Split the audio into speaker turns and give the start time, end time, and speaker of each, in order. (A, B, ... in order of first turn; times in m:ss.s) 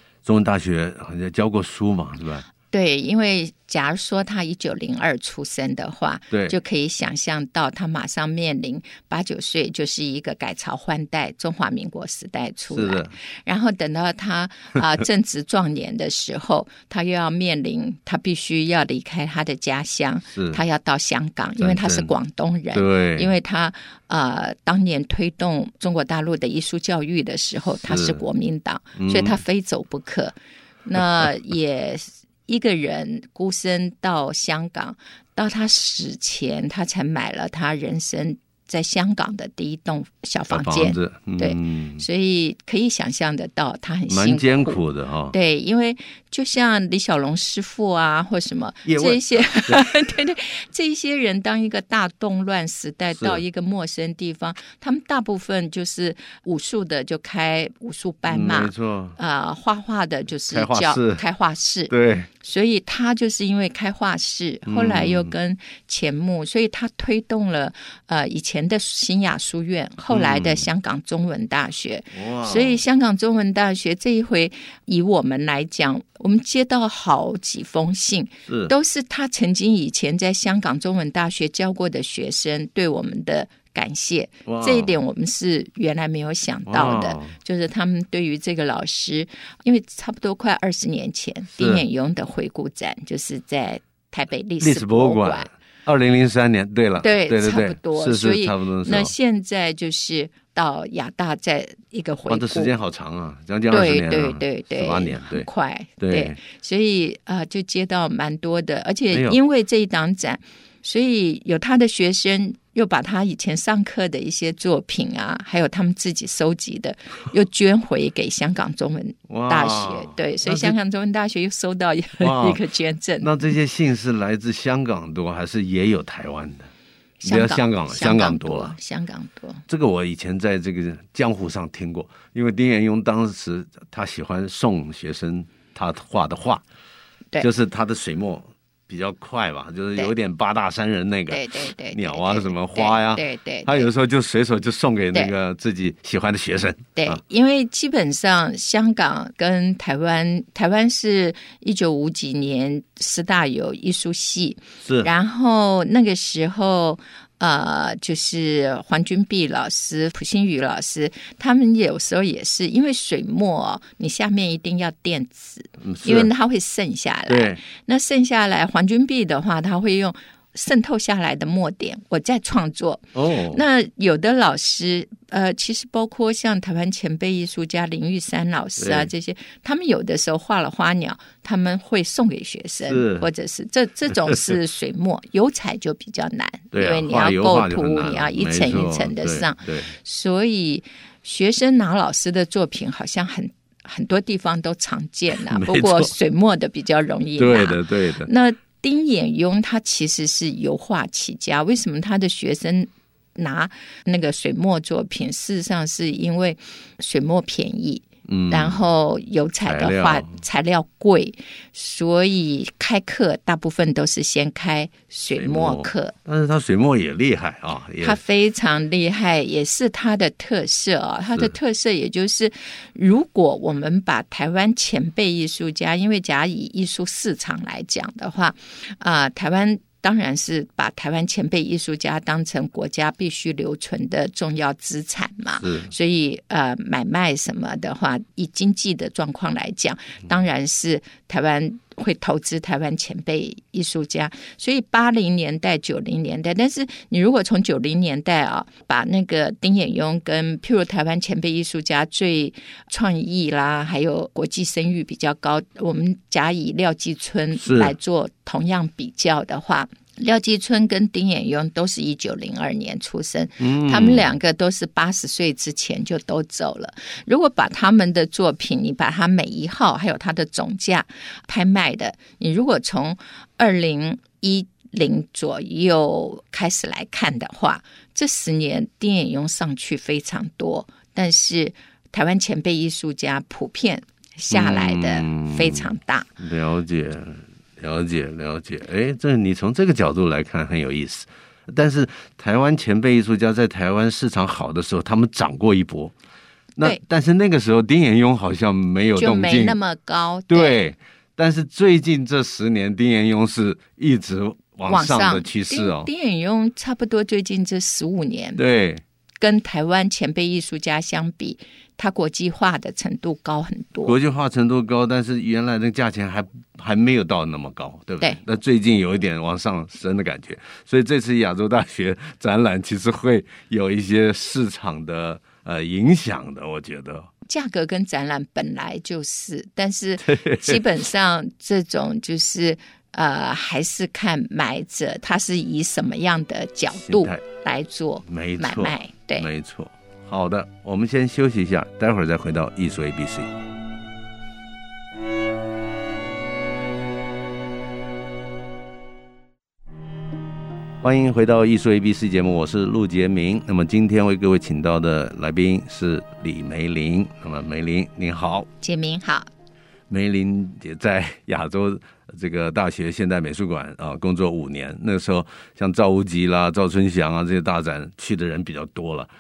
0:00.2-0:02.4 A
0:02.7-0:44.8 B
0:06.3-0:06.6 A
0:12.7-0:13.1 A
0:20.3-0:20.6 A
0:21.6-0:22.1 A
0:22.7-0:23.3 A
0:27.8-0:28.2 A
0:29.0-0:29.4 A
0:31.0-0:31.3 A
0:40.5-0:42.0 A
0:44.1-0:45.3 A
0:45.3-1:35.5 B
0:48.8-0:49.9 A
0:53.2-0:53.4 A
0:58.3-0:59.2 A
1:00.5-1:01.2 A
1:01.9-1:02.3 A
1:04.6-1:05.3 A
1:10.1-1:10.7 A
1:12.1-1:12.8 A
1:18.5-1:18.7 A
1:24.4-1:25.0 A
1:26.7-1:27.4 A
1:31.6-1:31.8 A
1:34.6-1:39.1 A
1:37.0-1:42.7 B
1:42.3-1:45.5 A
1:43.7-2:03.4 B
1:46.0-1:46.4 A
1:49.1-1:49.4 A
1:59.3-2:00.8 A
2:02.2-2:02.6 A
2:03.2-2:06.7 A
2:07.2-2:09.6 B
2:07.2-2:08.8 A
2:09.7-2:16.6 A
2:17.4-2:27.2 A
2:21.3-2:23.9 B
2:27.0-3:36.1 B
2:34.8-2:35.1 A
2:45.8-2:46.3 A
2:47.3-2:47.6 A
2:53.1-2:53.6 A
2:58.8-2:59.1 A
3:02.8-3:03.3 A
3:06.7-3:09.9 A
3:15.3-3:16.1 A
3:17.4-3:18.3 A
3:28.3-3:28.8 A
3:29.6-3:30.4 A
3:35.4-3:38.2 A
3:38.0-4:46.3 B
3:55.6-3:55.9 A
4:17.6-4:17.9 A
4:23.6-4:24.2 A
4:44.5-4:45.9 A
4:46.4-4:56.1 A
4:56.8-4:59.8 A
4:59.2-5:00.8 B
5:00.5-5:06.1 A
5:04.9-5:08.6 B
5:08.6-5:09.0 A
5:09.4-5:14.2 B
5:14.0-5:27.3 A
5:27.4-5:39.5 B
5:30.2-5:30.8 A
5:36.9-5:37.4 A
5:38.3-5:43.5 A
5:51.0-5:58.7 A
5:58.8-5:59.5 B
6:00.1-6:09.3 A